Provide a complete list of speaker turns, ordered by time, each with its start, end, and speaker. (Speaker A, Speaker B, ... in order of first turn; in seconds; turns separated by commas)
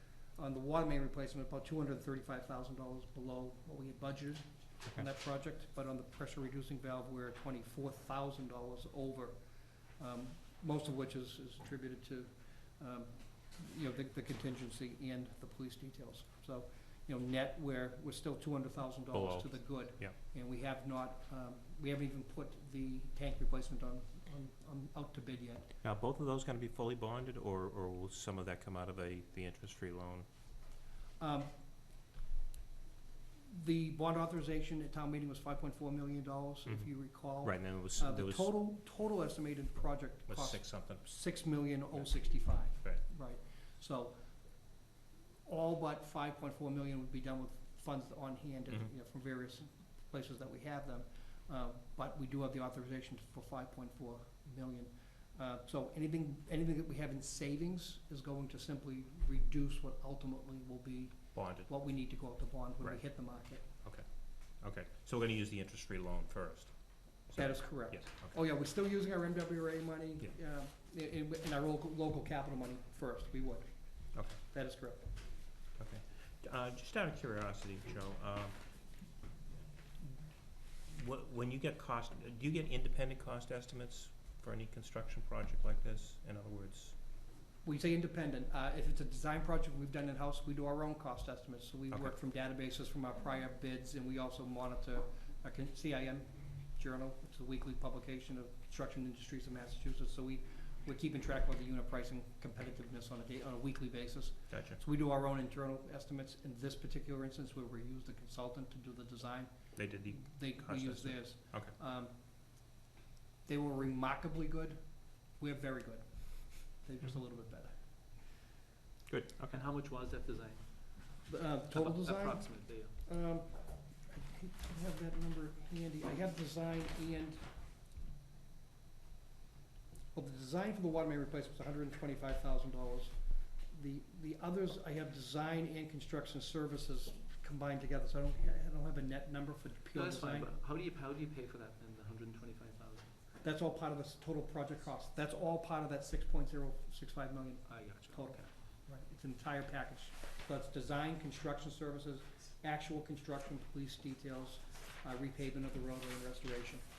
Speaker A: 0.4-9.4, Speaker A: 10.0-25.7, Speaker B: 19.1-20.1, Speaker B: 25.8-30.3, Speaker A: 31.2-31.5, Speaker A: 33.5-44.2, Speaker B: 36.7-38.5, Speaker B: 40.3-41.1, Speaker B: 42.2-43.0, Speaker A: 45.5-63.7, Speaker B: 61.3-61.7, Speaker B: 63.6-64.0, Speaker B: 64.6-66.7, Speaker B: 67.3-68.4, Speaker A: 67.4-73.7, Speaker A: 74.4-75.0, Speaker B: 75.8-78.6, Speaker B: 80.9-87.0, Speaker A: 87.7-109.5, Speaker B: 104.5-104.8, Speaker B: 109.8-111.7, Speaker A: 110.1-112.1, Speaker A: 113.5-114.8, Speaker A: 115.4-117.7, Speaker B: 119.1-119.6, Speaker C: 119.5-122.9, Speaker A: 121.3-127.4, Speaker A: 130.1-133.2, Speaker A: 133.7-140.5, Speaker C: 139.9-143.2, Speaker A: 143.4-156.8, Speaker C: 147.7-148.5